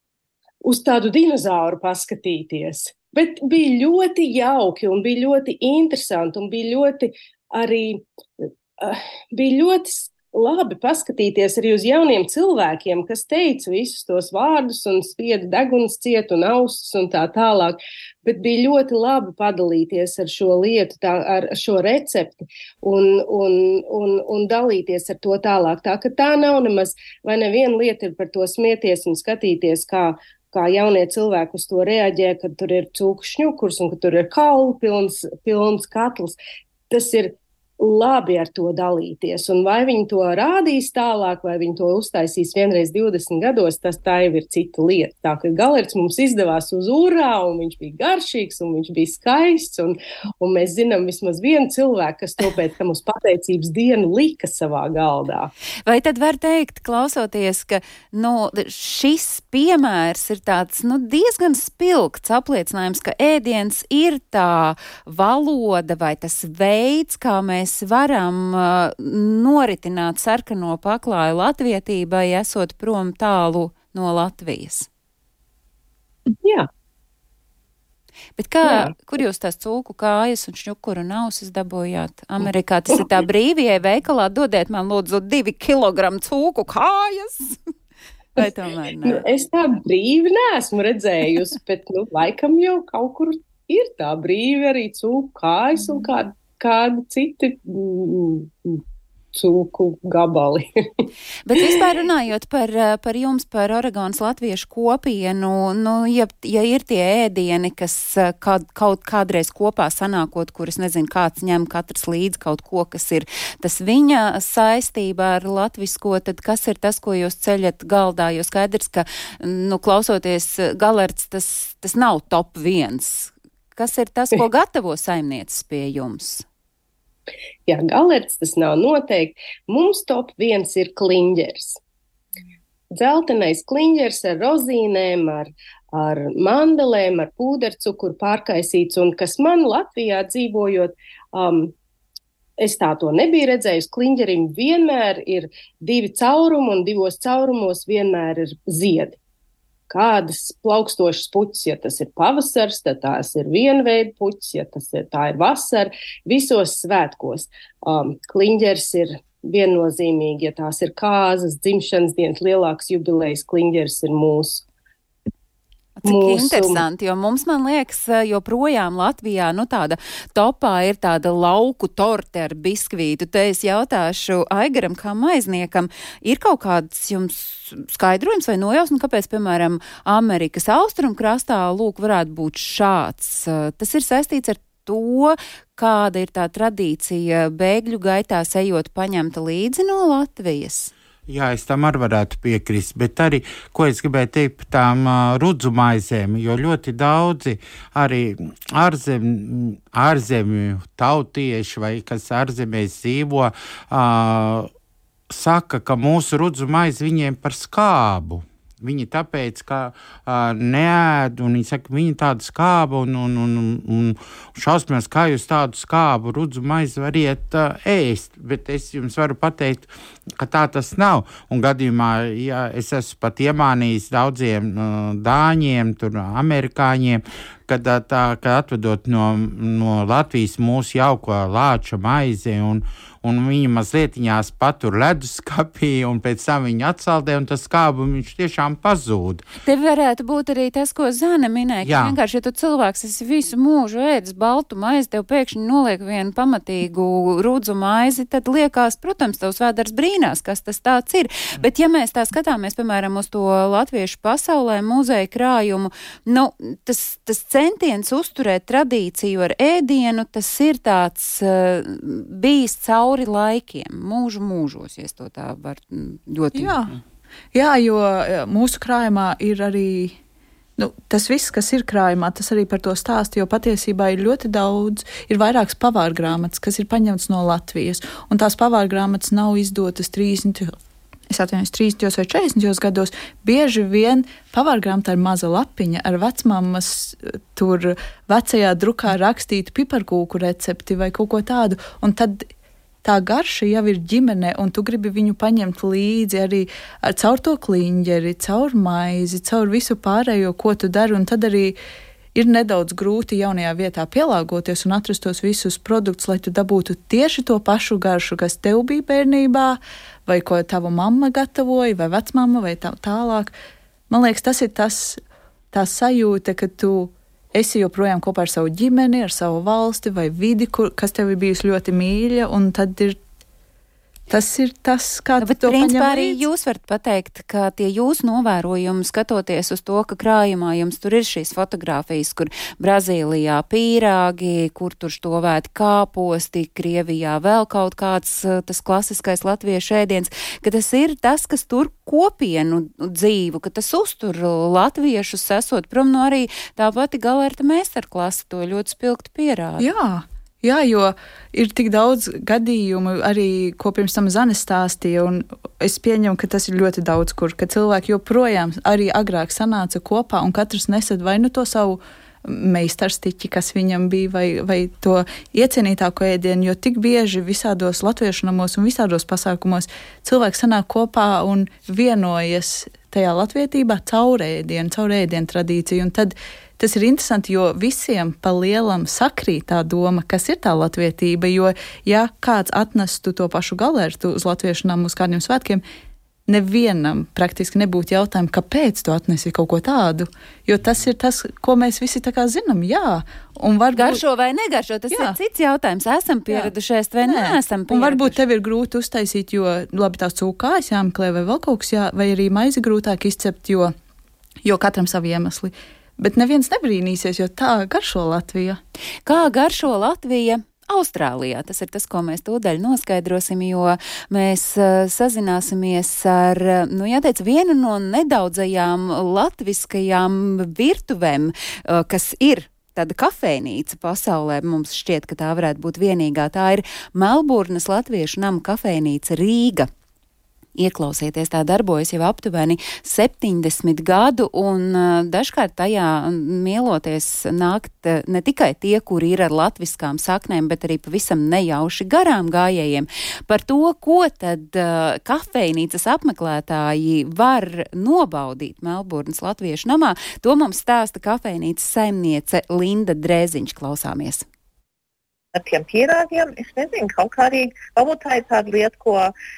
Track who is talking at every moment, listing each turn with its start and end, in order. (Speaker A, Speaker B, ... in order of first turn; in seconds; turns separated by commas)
Speaker A: 0.6-36.4, Speaker A: 36.9-55.5, Speaker B: 55.9-74.9, Speaker A: 76.4-76.7, Speaker B: 78.4-87.6, Speaker A: 78.6-78.9, Speaker B: 88.4-89.3, Speaker A: 89.0-98.8, Speaker A: 99.3-101.8, Speaker B: 101.5-126.5, Speaker A: 127.7-131.8, Speaker A: 132.9-141.7, Speaker A: 142.6-149.2, Speaker A: 149.9-164.6, Speaker B: 166.0-190.9, Speaker A: 166.1-166.8, Speaker C: 191.3-204.7, Speaker C: 205.3-239.4, Speaker B: 239.7-266.8, Speaker C: 241.8-242.2, Speaker D: 266.5-266.9, Speaker D: 267.5-270.2, Speaker D: 270.8-280.8, Speaker D: 281.3-292.5, Speaker D: 293.0-301.8, Speaker D: 302.4-313.6, Speaker D: 314.1-323.2, Speaker D: 324.3-326.4, Speaker B: 325.4-349.9, Speaker D: 349.8-385.8, Speaker D: 386.5-394.2, Speaker B: 393.9-398.4, Speaker D: 395.1-395.4, Speaker D: 396.5-403.9, Speaker D: 404.6-408.8, Speaker B: 409.2-429.9, Speaker B: 430.8-454.4, Speaker E: 455.6-459.3